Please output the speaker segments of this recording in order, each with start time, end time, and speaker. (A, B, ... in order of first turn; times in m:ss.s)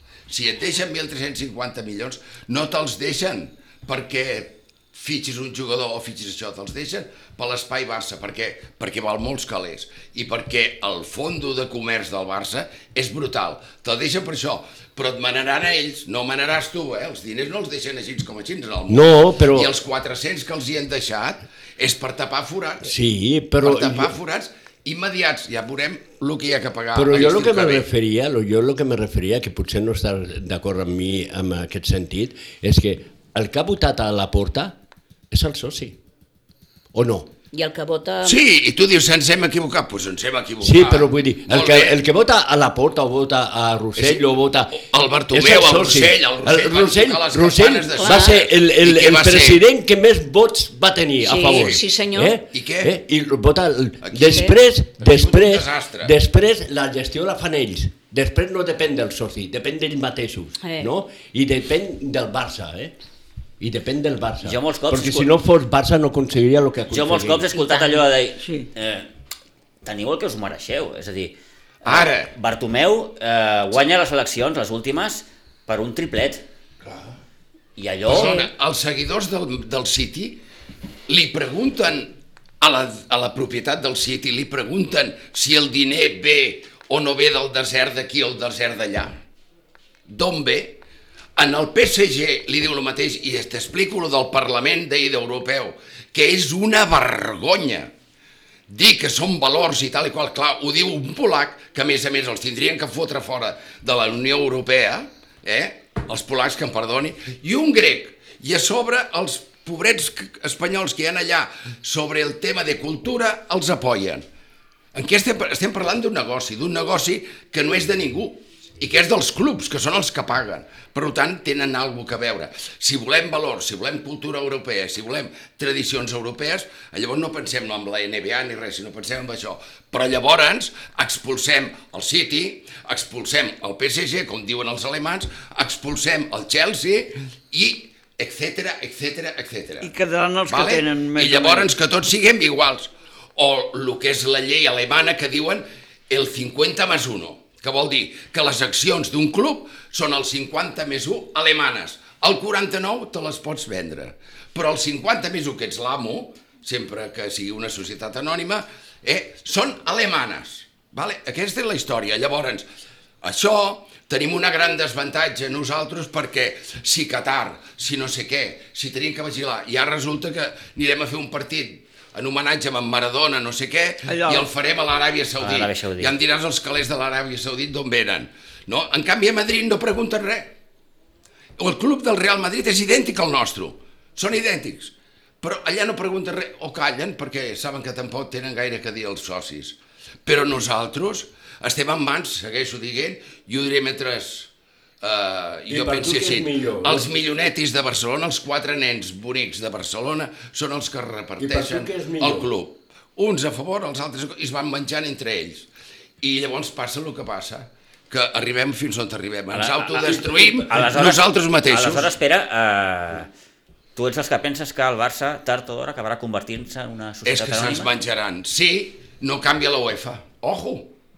0:00.3-0:22.9 A
0:18.9-0:19.7 B
0:22.8-0:24.1 B
0:23.6-0:27.9 A
0:26.9-0:34.8 B
0:35.3-0:36.0 B
0:36.9-0:37.3 B
0:37.5-0:38.4 C
0:38.2-0:42.0 A
0:40.6-1:02.9 B
0:44.0-0:49.6 A
0:48.0-0:48.4 C
0:51.2-0:52.4 C
0:52.5-0:53.0 A
0:54.0-0:56.1 A
0:54.3-0:54.6 C
1:00.6-1:00.9 C
1:03.6-1:07.5 B
1:04.4-1:05.3 D
1:06.9-1:09.1 D
1:07.5-1:08.1 C
1:08.4-1:08.7 E
1:09.8-1:16.4 D
1:11.8-1:12.3 A
1:17.8-1:18.4 D
1:18.1-1:20.4 A
1:18.1-1:18.5 C
1:21.1-1:29.2 A
1:30.1-1:30.8 A
1:31.4-1:37.9 A
1:38.7-1:54.2 A
1:54.9-2:19.9 A
2:19.8-2:21.7 E
2:20.5-2:42.6 A
2:43.2-3:00.5 A
2:54.1-2:54.5 E
2:55.4-2:56.1 D
3:01.6-3:14.5 A
3:15.0-3:25.7 A
3:15.7-3:17.1 B
3:21.4-3:22.5 B
3:26.2-3:32.1 A
3:29.5-3:33.3 D
3:30.1-3:30.9 B
3:34.0-3:37.9 D
3:37.2-3:40.9 A